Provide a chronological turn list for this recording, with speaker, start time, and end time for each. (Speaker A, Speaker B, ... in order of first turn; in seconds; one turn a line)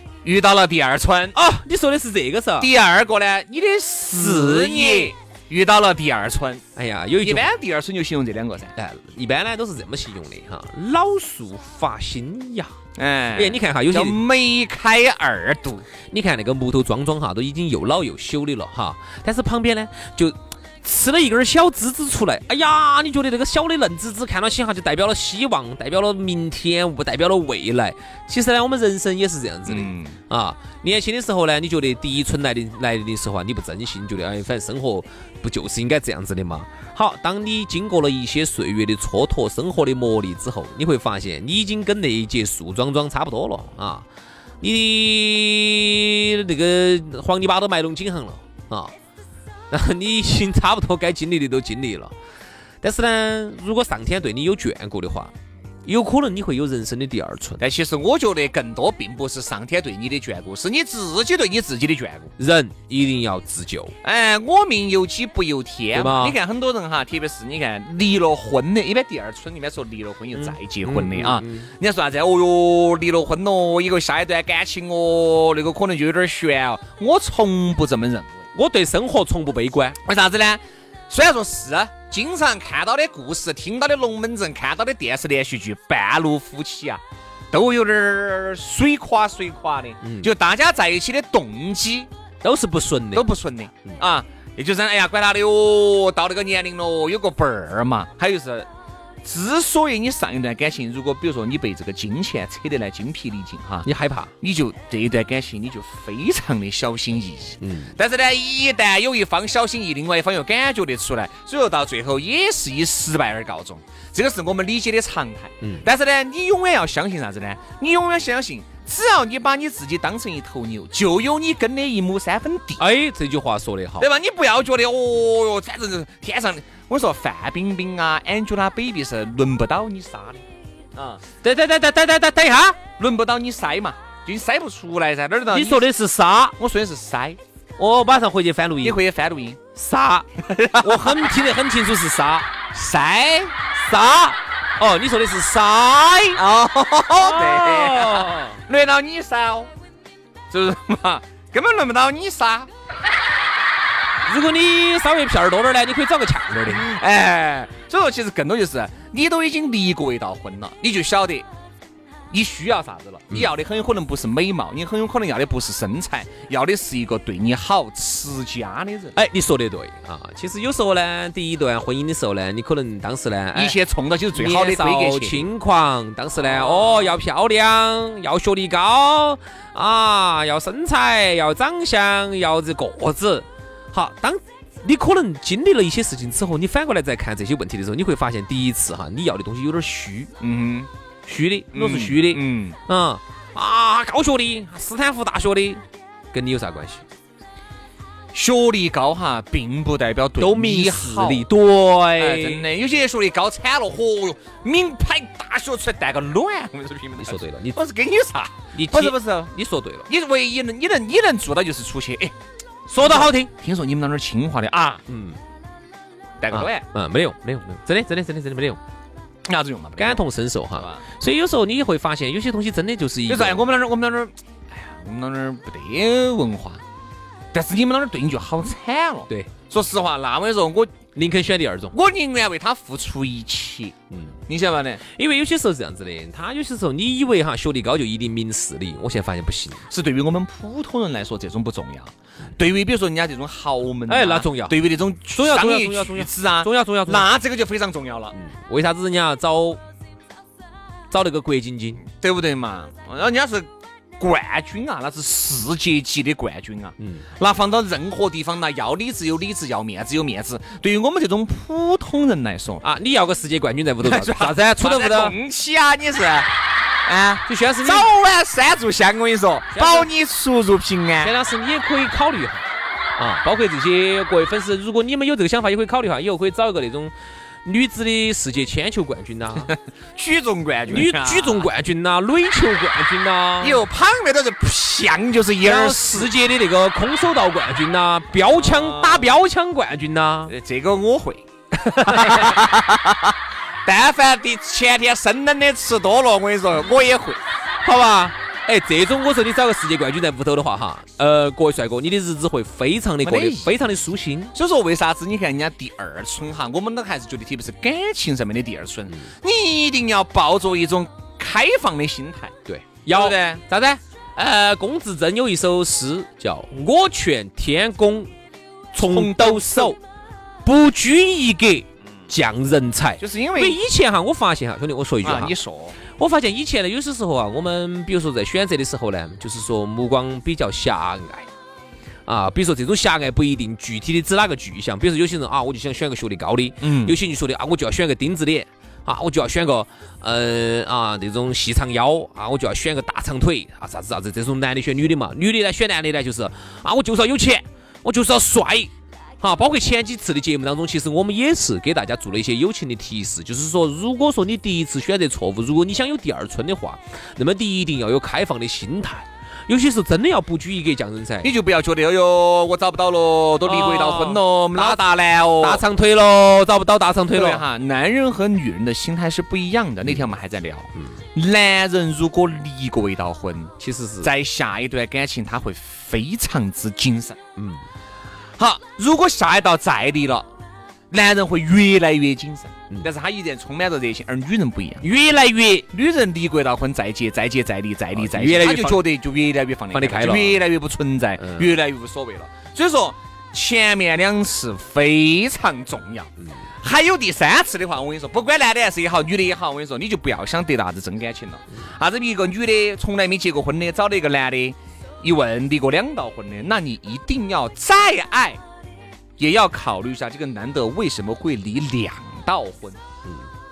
Speaker A: 0.2-1.4
Speaker B: 1.3-2.7
Speaker A: 2.6-6.6
Speaker B: 4.1-5.1
Speaker B: 6.8-7.5
Speaker A: 7.2-8.7
Speaker B: 8.8-12.7
Speaker A: 12.9-15.9
Speaker B: 13.3-14.2
Speaker B: 16.1-44.0
Speaker A: 29.6-30.2
Speaker B: 44.6-48.9
Speaker B: 49.7-52.1
Speaker B: 52.8-55.3
Speaker B: 55.8-57.6
Speaker A: 57.6-62.3
Speaker B: 62.4-63.9
Speaker A: 64.0-78.5
Speaker B: 65.9-66.3
Speaker B: 70.3-71.7
Speaker B: 78.5-80.0
Speaker A: 80.0-92.1
Speaker B: 90.0-90.3
Speaker B: 92.4-93.3
Speaker A: 93.1-98.7
Speaker A: 99.2-103.9
Speaker B: 103.8-104.3
Speaker A: 104.4-122.8
Speaker B: 107.6-107.9
Speaker B: 122.8-124.1
Speaker A: 124.0-131.2
Speaker B: 131.4-132.8
Speaker A: 133.0-135.9
Speaker B: 135.5-136.5
Speaker A: 136.6-137.4
Speaker B: 137.8-139.0
Speaker A: 138.8-139.6
Speaker B: 139.7-140.2
Speaker A: 140.4-141.3
Speaker B: 140.8-142.5
Speaker A: 142.7-143.6
Speaker B: 143.7-146.4
Speaker A: 146.3-149.7
Speaker B: 147.2-148.6
Speaker A: 150.5-152.7
Speaker B: 154.2-156.9
Speaker A: 156.7-161.5
Speaker A: 162.3-169.2
Speaker B: 169.2-173.8
Speaker A: 173.5-175.5
Speaker B: 174.3-190.3
Speaker A: 176.4-177.2
Speaker A: 190.4-190.9
Speaker B: 191.2-197.0
Speaker A: 191.7-192.8
Speaker A: 198.3-201.5
Speaker B: 200.4-202.6
Speaker A: 202.2-209.5
Speaker B: 207.2-207.8
Speaker B: 208.7-210.1
Speaker A: 210.1-212.3
Speaker B: 212.9-213.5
Speaker A: 213.0-215.0
Speaker B: 215.1-215.4
Speaker A: 216.4-216.8
Speaker B: 216.5-218.8
Speaker A: 219.4-221.0
Speaker B: 220.0-223.6
Speaker A: 223.3-226.8
Speaker A: 227.5-230.9
Speaker B: 231.1-231.9
Speaker A: 231.9-233.9
Speaker B: 234.1-234.3
Speaker A: 234.5-235.0
Speaker B: 235.0-239.8
Speaker A: 239.9-248.3
Speaker B: 244.1-244.8
Speaker B: 245.3-247.3
Speaker B: 248.3-249.8
Speaker B: 251.1-252.0
Speaker A: 252.1-262.8
Speaker B: 257.0-257.2
Speaker B: 262.8-265.4
Speaker A: 264.0-266.5
Speaker A: 267.0-271.3
Speaker B: 267.5-268.1
Speaker B: 269.7-270.1
Speaker B: 271.2-272.6
Speaker B: 273.2-277.1
Speaker B: 277.6-279.7
Speaker A: 279.7-281.7
Speaker B: 280.9-283.8
Speaker A: 283.6-286.3
Speaker B: 285.6-290.5
Speaker A: 288.4-289.4
Speaker A: 290.5-293.3
Speaker B: 291.9-292.6
Speaker A: 293.8-297.4
Speaker B: 297.8-304.5
Speaker A: 303.2-303.8
Speaker A: 304.5-312.6
Speaker B: 312.7-318.3
Speaker A: 313.1-313.6
Speaker B: 318.9-320.0
Speaker A: 319.0-319.9
Speaker B: 320.6-331.5
Speaker A: 323.2-323.8
Speaker A: 325.2-326.0
Speaker B: 332.3-361.5
Speaker A: 336.8-337.1
Speaker A: 361.4-365.8
Speaker B: 363.6-365.0
Speaker B: 365.6-367.6
Speaker A: 367.3-377.4
Speaker B: 373.8-374.3
Speaker B: 377.6-377.8
Speaker A: 378.6-380.5
Speaker A: 381.1-385.1
Speaker B: 385.0-385.9
Speaker A: 385.9-408.6
Speaker B: 388.1-389.1
Speaker B: 389.9-390.7
Speaker B: 391.4-391.7
Speaker A: 409.4-413.0